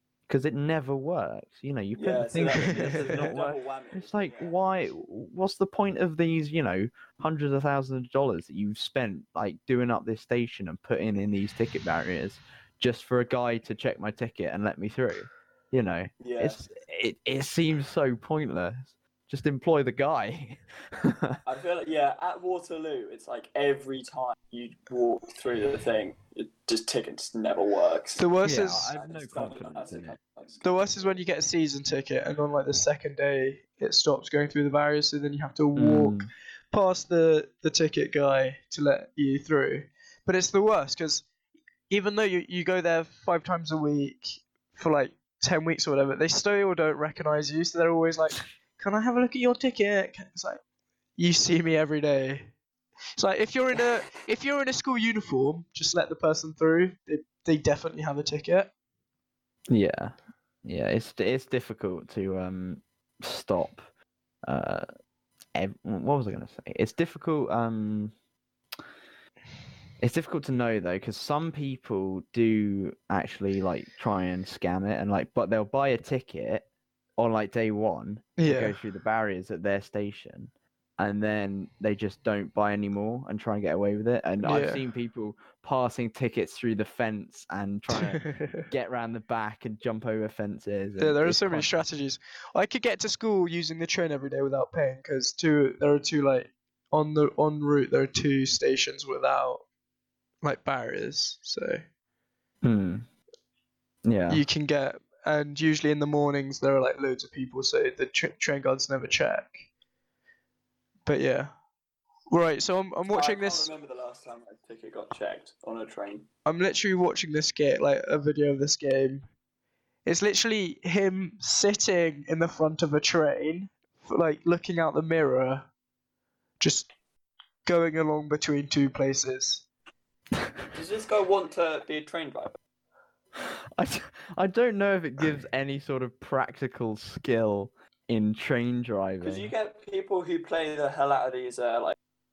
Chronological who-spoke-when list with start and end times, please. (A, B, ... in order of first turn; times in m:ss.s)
0:00.3-0:21.4 A
0:02.0-0:04.5 B
0:02.7-0:03.3 C
0:16.2-0:16.6 B
0:21.4-0:28.3 B
0:28.2-0:28.9 C
0:28.4-0:30.2 A
0:28.9-0:31.2 B
0:30.6-0:41.2 C
0:35.8-0:36.3 A
0:41.9-0:50.6 C
0:51.2-0:52.5 C
0:53.2-0:58.7 C
0:59.7-1:03.8 A
1:04.4-1:04.9 A
1:05.5-1:08.1 A
1:10.0-1:16.7 A
1:17.2-1:31.8 A
1:18.4-1:18.8 C
1:24.4-1:24.8 C
1:27.9-1:28.6 C
1:31.0-1:39.6 C
1:40.4-1:41.8 C
1:42.6-1:43.1 A
1:44.0-1:44.4 A
1:44.3-1:49.6 C
1:51.0-1:51.5 C
1:52.3-1:53.7 C
1:53.1-1:56.3 B
1:56.4-1:59.2 C
2:00.0-2:05.7 C
2:06.6-2:06.9 C
2:07.6-2:09.6 C
2:10.7-2:12.6 B
2:13.4-2:19.5 A
2:19.2-2:22.0 B